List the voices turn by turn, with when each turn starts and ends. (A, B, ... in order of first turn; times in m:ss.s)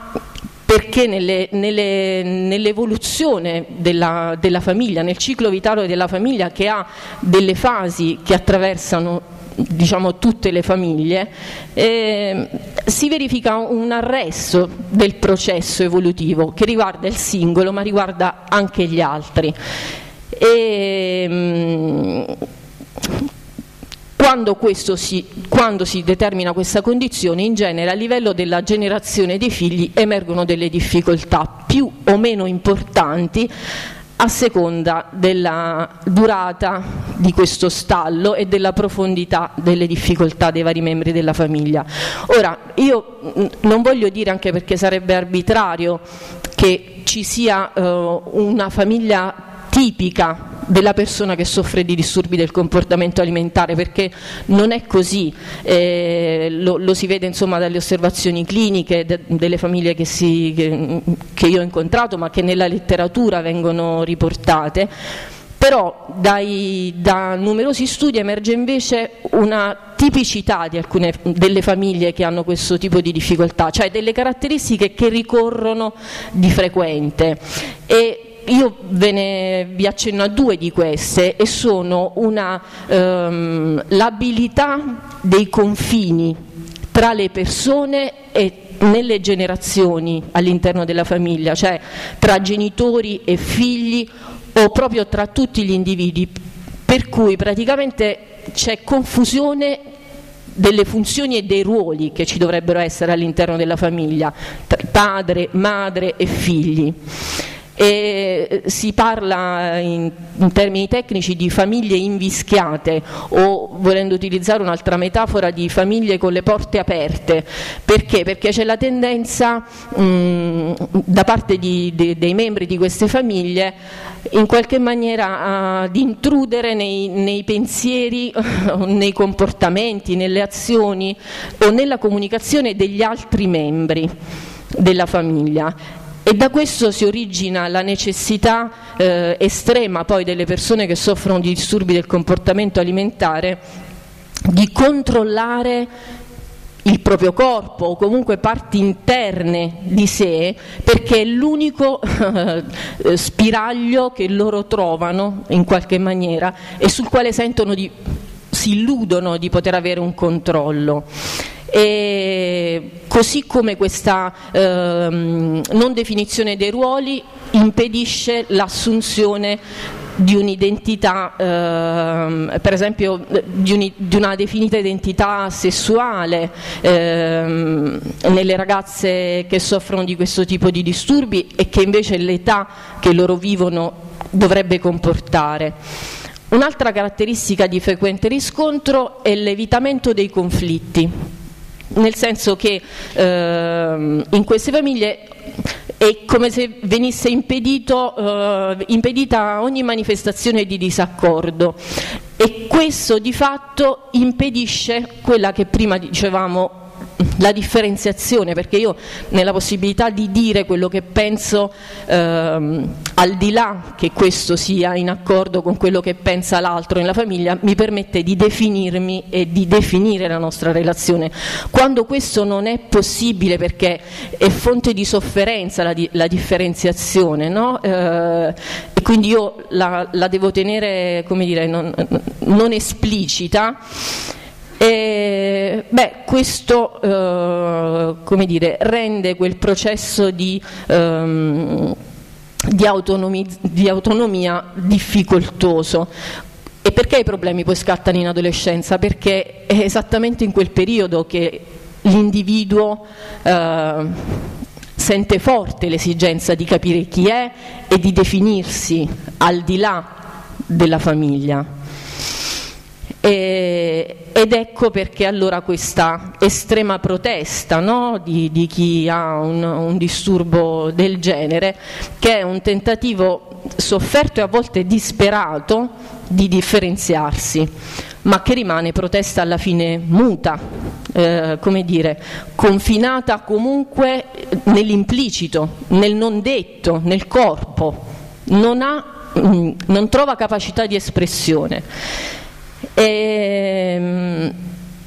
0:00.7-0:19.5 A
0:20.3-0:22.4 A
0:24.2-0:33.5 A
0:34.2-0:46.0 A
0:46.6-1:04.9 A
1:05.6-1:26.4 A
1:26.9-1:39.8 A
1:40.5-1:47.0 A
1:47.8-2:03.8 A
2:04.3-2:14.1 A
2:14.8-2:23.6 A
2:24.5-2:25.9 A
2:26.8-2:37.9 A
2:38.5-2:41.1 A
2:41.7-2:49.6 A
2:50.2-3:05.8 A
3:06.5-3:11.1 A
3:11.9-3:15.3 A
3:16.0-3:21.8 A
3:22.4-3:53.8 A
3:54.8-4:02.0 A
4:02.7-4:06.1 A
4:06.8-4:20.1 A
4:20.7-4:21.7 A
4:23.2-4:37.7 A
4:38.2-4:40.6 A
4:41.1-4:51.8 A
4:53.0-4:54.6 A